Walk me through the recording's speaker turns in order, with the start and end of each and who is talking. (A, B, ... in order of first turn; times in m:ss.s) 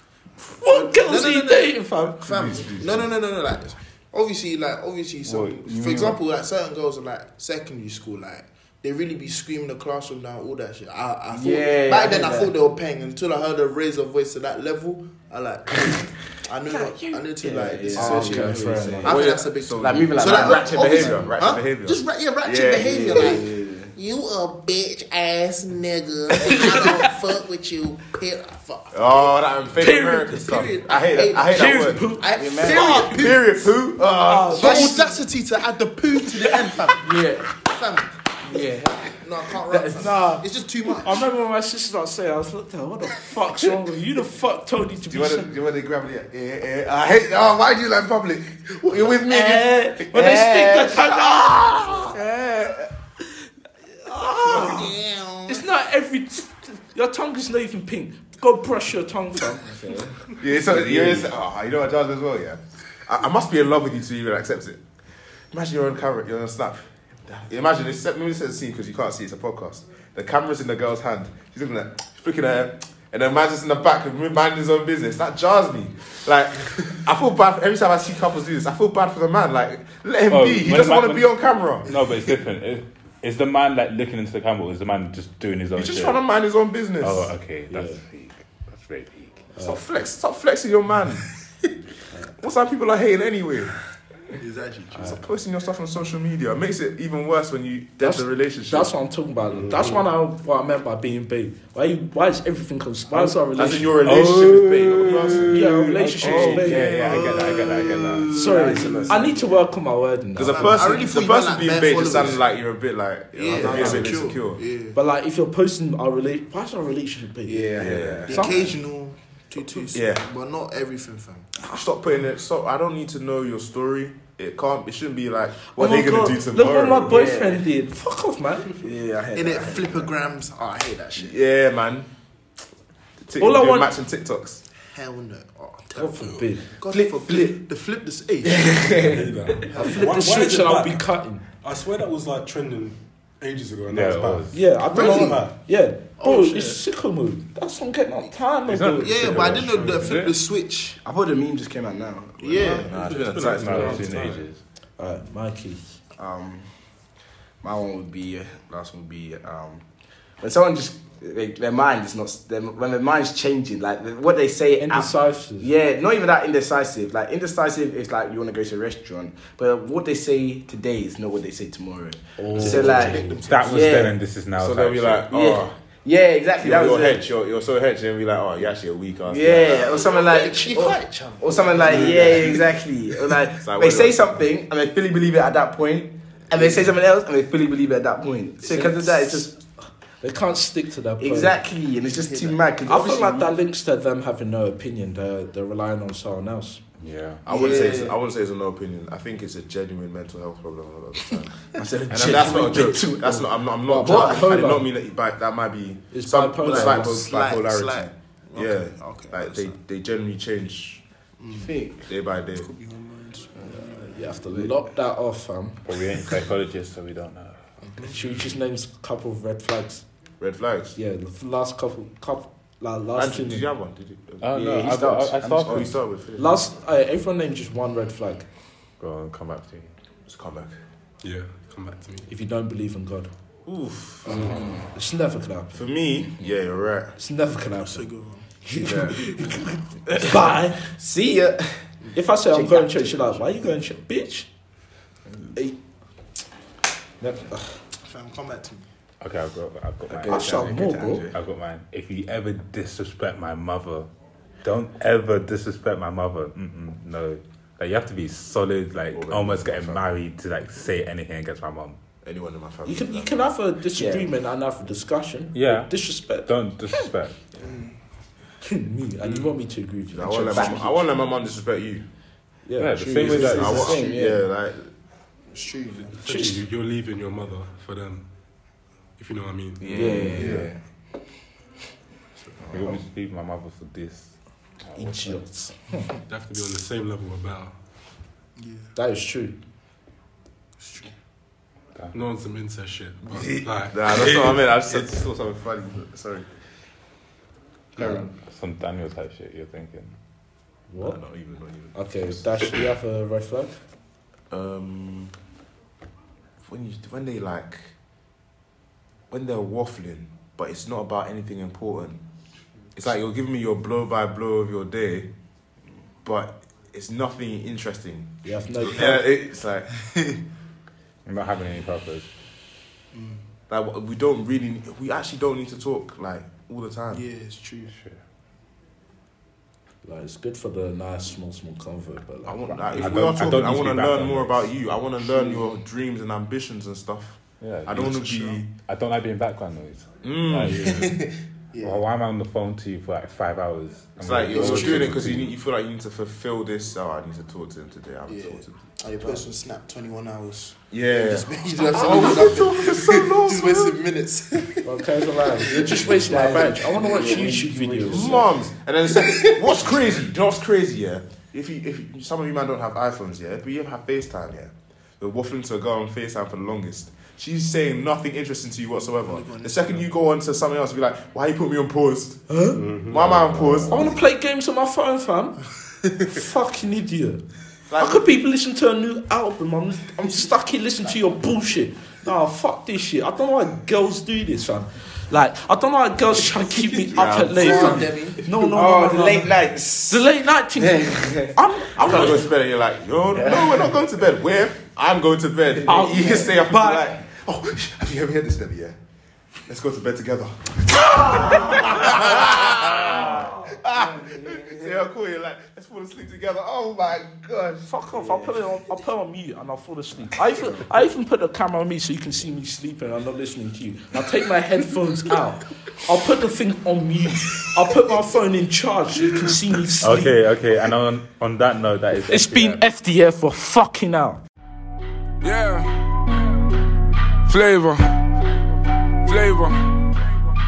0:00.5-0:33.7 A
0:00.6-0:02.7 B
0:02.3-0:03.1 C
0:05.2-0:06.2 D
0:11.3-0:12.5 E
0:16.6-0:21.4 E
0:17.9-0:19.2 B
0:18.8-0:23.3 C
0:22.7-0:23.9 E
0:26.5-0:26.8 E
0:26.5-0:26.8 B
0:28.9-0:32.1 C
0:29.8-0:30.6 B
0:31.5-0:33.2 B
0:32.4-0:33.2 E
0:32.6-0:35.0 C
0:34.2-0:35.2 B
0:34.5-0:41.3 A
0:36.4-0:37.4 B
0:37.0-0:37.3 E
0:38.4-0:39.1 E
0:39.7-0:45.5 B
0:45.1-0:52.0 C
0:49.3-0:51.7 B
0:50.1-0:52.9 E
0:54.0-0:54.9 B
0:54.4-0:55.6 A
0:55.5-1:00.3 B
1:00.4-1:04.8 C
1:00.8-1:01.2 E
1:05.5-1:22.0 C
1:20.3-1:26.2 D
1:25.7-1:27.3 C
1:27.0-1:29.4 D
1:27.7-1:28.0 B
1:29.5-1:29.8 B
1:29.6-1:31.3 C
1:32.4-1:33.8 C
1:34.4-1:35.2 A
1:34.9-1:38.9 C
1:38.0-1:44.0 B
1:39.5-1:40.0 F
1:43.1-1:47.8 C
1:44.0-1:48.4 D
1:45.5-1:46.9 B
1:46.5-1:47.4 E
1:46.8-1:48.2 A
1:48.0-1:49.6 E
1:48.3-1:50.9 B
1:50.4-1:54.6 C
1:50.4-1:52.4 A
1:53.3-1:55.0 A
1:53.5-1:54.0 B
1:54.9-1:58.7 B
1:57.4-1:58.7 E
1:57.8-1:58.3 C
1:58.2-2:01.5 A
1:59.9-2:00.2 C
2:01.6-2:01.9 B
2:01.7-2:07.2 C
2:05.6-2:08.8 B
2:07.0-2:07.7 E
2:08.8-2:10.1 E
2:09.3-2:11.4 A
2:11.1-2:12.1 C
2:13.2-2:14.6 C
2:13.4-2:13.9 B
2:14.8-2:20.0 A
2:15.9-2:16.7 B
2:16.8-2:17.6 E
2:18.4-2:19.3 E
2:19.0-2:25.5 F
2:19.7-2:21.4 B
2:23.9-2:24.6 D
2:24.5-2:29.6 B
2:24.9-2:25.4 A
2:26.2-2:26.8 A
2:28.7-2:30.0 C
2:29.0-2:31.0 A
2:29.7-2:30.2 F
2:29.9-2:30.3 D
2:31.0-2:32.9 E
2:32.4-2:33.0 A
2:32.6-2:34.4 C
2:32.9-2:34.4 F
2:33.3-2:34.6 D
2:35.0-2:36.0 B
2:36.2-2:36.7 E
2:37.6-2:39.8 E
2:40.4-2:54.2 E
2:44.8-2:45.7 B
2:52.4-2:53.2 B
2:52.6-2:53.5 F
2:52.6-2:54.1 A
2:53.5-2:55.2 D
2:54.5-2:55.7 C
2:55.3-2:57.2 E
2:56.6-3:00.1 C
2:59.2-3:09.5 E
2:59.6-3:02.8 A
3:01.9-3:02.6 C
3:03.6-3:04.4 C
3:06.5-3:06.9 A
3:08.6-3:09.5 B
3:10.2-3:11.6 B
3:11.2-3:13.5 E
3:12.0-3:12.6 A
3:12.8-3:16.8 B
3:17.0-3:17.4 D
3:17.4-3:31.0 C
3:17.5-3:18.0 A
3:17.5-3:18.2 E
3:21.8-3:23.5 E
3:22.3-3:22.9 B
3:23.8-3:24.9 B
3:24.0-3:24.3 E
3:26.1-3:27.1 B
3:26.6-3:29.8 A
3:31.4-3:31.7 A
3:31.5-3:32.0 E
3:32.0-3:32.7 C
3:32.5-3:34.2 A
3:33.6-3:36.1 B
3:34.5-3:34.8 E
3:35.8-3:37.6 D
3:38.0-3:40.0 B
3:40.4-3:41.0 C
3:41.0-3:43.7 B
3:43.1-3:44.6 C
3:44.4-3:46.0 D
3:44.5-3:45.9 E
3:45.6-3:46.6 C
3:46.4-3:48.4 B
3:49.0-3:49.9 D
3:50.2-3:50.8 C
3:51.2-3:52.3 F
3:52.3-3:53.3 B
3:53.6-3:54.6 C
3:54.3-3:55.9 B
3:54.3-3:54.7 F
3:54.4-3:54.8 E
3:55.7-3:57.2 C
3:57.2-3:58.1 B
3:57.8-3:58.6 A
3:58.6-4:00.8 B
3:58.8-3:59.2 E
3:59.2-3:59.6 A
4:00.1-4:01.9 E
4:02.1-4:04.5 B
4:02.5-4:03.7 E
4:07.2-4:07.7 B
4:08.0-4:08.9 A
4:09.2-4:10.7 D
4:10.1-4:11.4 E
4:10.3-4:11.3 B
4:11.3-4:14.1 D
4:14.6-4:22.0 D
4:19.1-4:20.0 C
4:22.2-4:23.5 C
4:22.8-4:26.5 B
4:24.0-4:24.3 E
4:25.5-4:27.4 D
4:27.6-4:28.0 A
4:28.6-4:30.9 B
4:30.1-4:32.0 C
4:30.5-4:30.9 E
4:32.6-4:33.9 B
4:32.8-4:34.0 D
4:33.0-4:34.4 E
4:33.2-4:34.9 C
4:35.5-4:36.2 A
4:36.1-4:38.3 F
4:36.2-4:36.6 B
4:39.2-4:40.5 F
4:39.8-4:40.8 E
4:39.9-4:40.5 B
4:40.3-4:40.7 C
4:42.6-4:42.9 E
4:42.7-4:44.3 D
4:44.9-4:46.1 B
4:45.0-4:45.3 D
4:46.3-4:47.8 F
4:48.6-4:48.9 A
4:48.9-4:49.6 B
4:50.8-4:51.1 A
4:52.1-4:55.0 F
4:53.3-4:56.5 C
4:58.0-4:58.3 B
4:58.0-4:58.3 E
4:58.4-5:00.2 D
5:00.9-5:01.2 B
5:01.0-5:02.1 C
5:01.9-5:03.8 B
5:04.5-5:05.3 C
5:06.6-5:07.9 C
5:09.3-5:12.2 C
5:12.9-5:15.3 C
5:16.2-5:20.4 C
5:18.4-5:19.2 B
5:21.2-5:22.3 D
5:23.1-5:23.4 A
5:23.7-5:27.2 C
5:27.1-5:28.0 A
5:27.9-5:28.2 D
5:30.0-5:33.2 B
5:32.4-5:38.7 C
5:33.0-5:34.7 D
5:37.6-5:41.3 D
5:40.2-5:41.0 C
5:40.7-5:42.0 A
5:41.8-5:45.5 D
5:44.2-5:49.4 C
5:44.5-5:45.3 A
5:48.3-5:58.4 A
5:50.9-5:54.0 C
5:54.8-5:58.4 B
5:56.3-5:58.3 E
5:58.1-6:12.4 C
5:59.1-5:59.9 A
6:09.2-6:10.1 A
6:12.5-6:12.8 B
6:12.7-6:13.8 F
6:13.1-6:14.2 C
6:13.4-6:13.7 D
6:13.9-6:15.6 B
6:16.2-6:17.4 B
6:17.9-6:18.3 C
6:18.0-6:32.5 B
6:27.1-6:28.7 A
6:27.1-6:28.1 C
6:28.7-6:31.6 E
6:32.0-6:39.0 C
6:33.3-6:33.9 E
6:35.8-6:37.2 B
6:39.7-6:47.9 C
6:44.3-6:44.8 E
6:47.8-7:00.4 B
6:50.5-6:50.9 E
7:00.0-7:02.8 D
7:02.2-7:04.4 B
7:05.4-7:06.4 G
7:07.4-7:08.3 G
7:09.2-7:10.1 G